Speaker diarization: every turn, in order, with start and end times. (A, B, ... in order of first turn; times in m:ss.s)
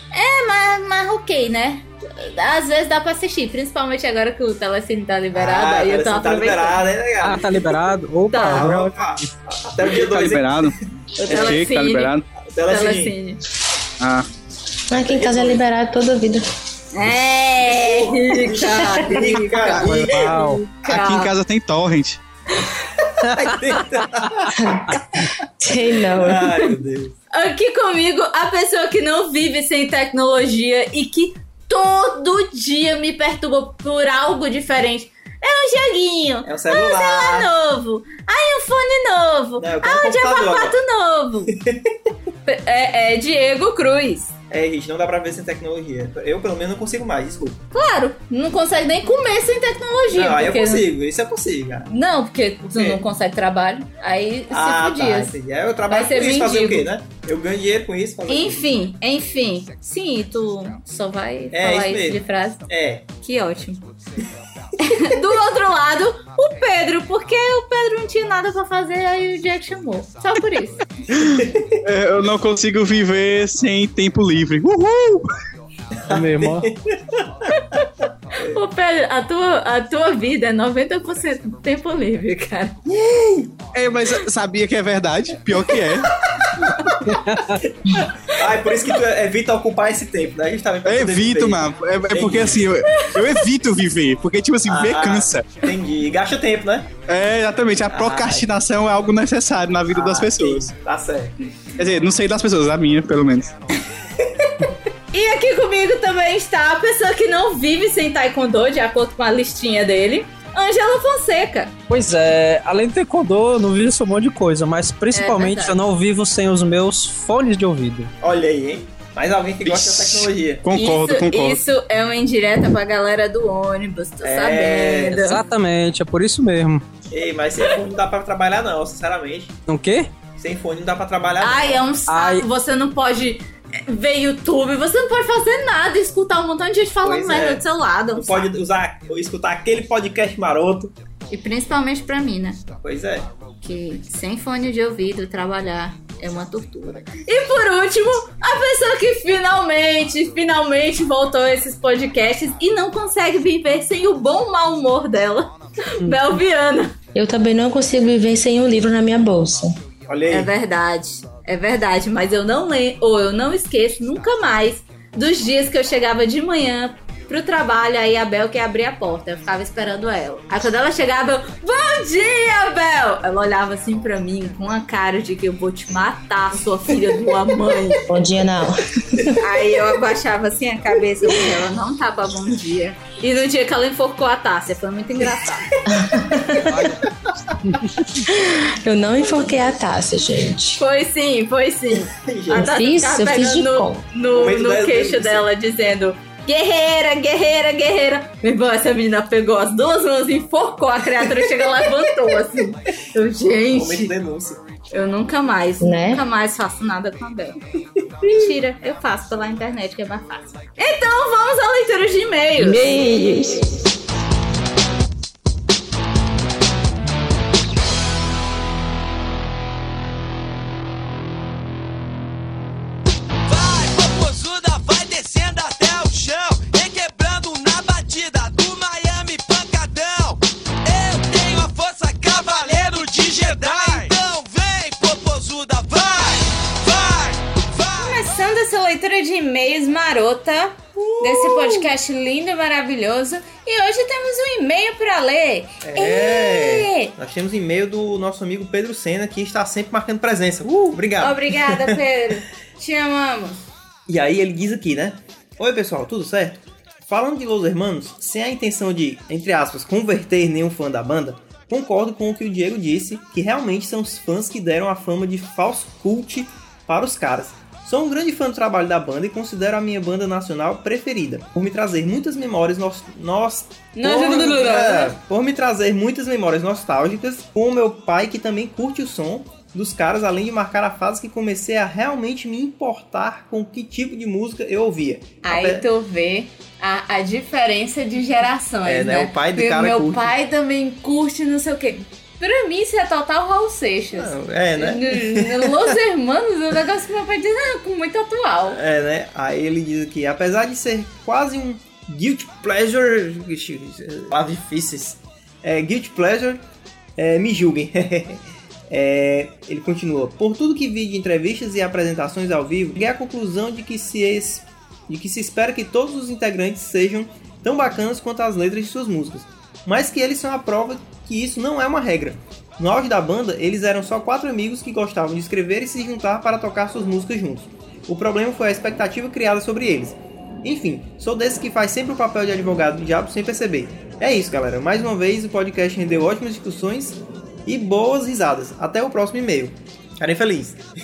0:00.1-0:06.8 A
0:05.3-0:07.8 B
0:07.2-0:08.9 C
0:08.3-0:08.7 A
0:08.4-0:11.6 B
0:09.9-0:10.8 D
0:11.3-0:12.1 A
0:11.3-0:12.3 D
0:12.4-0:13.1 B
0:12.7-0:13.4 A
0:14.0-0:14.3 D
0:14.9-0:16.5 E
0:14.9-0:15.6 B
0:16.9-0:21.3 A
0:17.6-0:20.6 B
0:19.8-0:20.6 C
0:20.8-0:22.2 D
0:23.0-0:25.0 B
0:24.5-0:26.5 E
0:26.1-0:27.2 B
0:27.3-0:41.5 A
0:36.4-0:37.5 B
0:39.6-0:40.8 B
0:41.5-0:41.9 B
0:42.5-0:44.3 A
0:44.5-0:47.7 B
0:47.7-0:50.9 A
0:50.1-0:51.9 B
0:51.9-0:55.3 A
0:52.7-0:53.0 B
0:54.5-0:58.7 B
0:55.9-0:56.9 A
0:58.3-1:02.6 A
1:01.5-1:03.1 B
1:03.2-1:03.9 A
1:04.8-1:10.8 A
1:11.1-1:15.2 D
1:11.2-1:11.8 B
1:16.0-1:17.5 B
1:16.1-1:16.7 C
1:17.6-1:17.8 A
1:18.3-1:18.6 B
1:18.4-1:22.8 A
1:22.8-1:23.6 B
1:23.7-1:26.2 D
1:26.3-1:26.9 B
1:27.0-1:27.6 C
1:27.6-1:32.7 B
1:30.8-1:35.6 D
1:34.7-1:36.9 B
1:37.1-1:40.7 D
1:37.9-1:38.5 B
1:39.9-1:41.4 B
1:41.8-1:43.5 D
1:45.1-1:51.7 A
1:51.9-1:58.1 C
1:55.1-1:55.8 A
1:58.2-2:00.6 B
1:59.7-2:01.6 D
2:00.7-2:05.4 A
2:04.2-2:05.2 B
2:05.2-2:06.8 C
2:07.1-2:09.5 B
2:09.7-2:10.1 C
2:10.4-2:11.8 B
2:11.4-2:18.4 A
2:12.1-2:12.4 C
2:17.0-2:21.0 B
2:21.3-2:22.6 A
2:22.8-2:23.3 B
2:23.6-2:37.0 A
2:37.2-2:39.8 E
2:40.1-2:40.5 B
2:40.3-2:58.1 A
2:58.0-2:59.4 E
2:59.4-3:05.8 A
3:05.7-3:06.6 B
3:05.9-3:06.6 E
3:06.6-3:07.1 C
3:08.3-3:10.8 E
3:10.8-3:24.2 A
3:12.1-3:12.8 B
3:12.5-3:14.0 E
3:14.3-3:15.5 B
3:21.2-3:22.4 B
3:23.7-3:24.6 B
3:24.9-3:27.6 A
3:25.8-3:26.2 E
3:28.2-3:32.9 A
3:32.6-3:33.8 E
3:43.5-3:58.2 F
3:58.0-4:07.1 A
4:01.0-4:01.9 B
4:05.8-4:12.0 B
4:11.2-4:13.6 A
4:14.1-4:45.9 B
4:33.9-4:35.2 A
4:45.4-4:58.8 A
4:48.8-4:50.3 B
4:54.1-4:56.0 B
4:58.7-5:06.6 B
5:07.2-5:40.8 B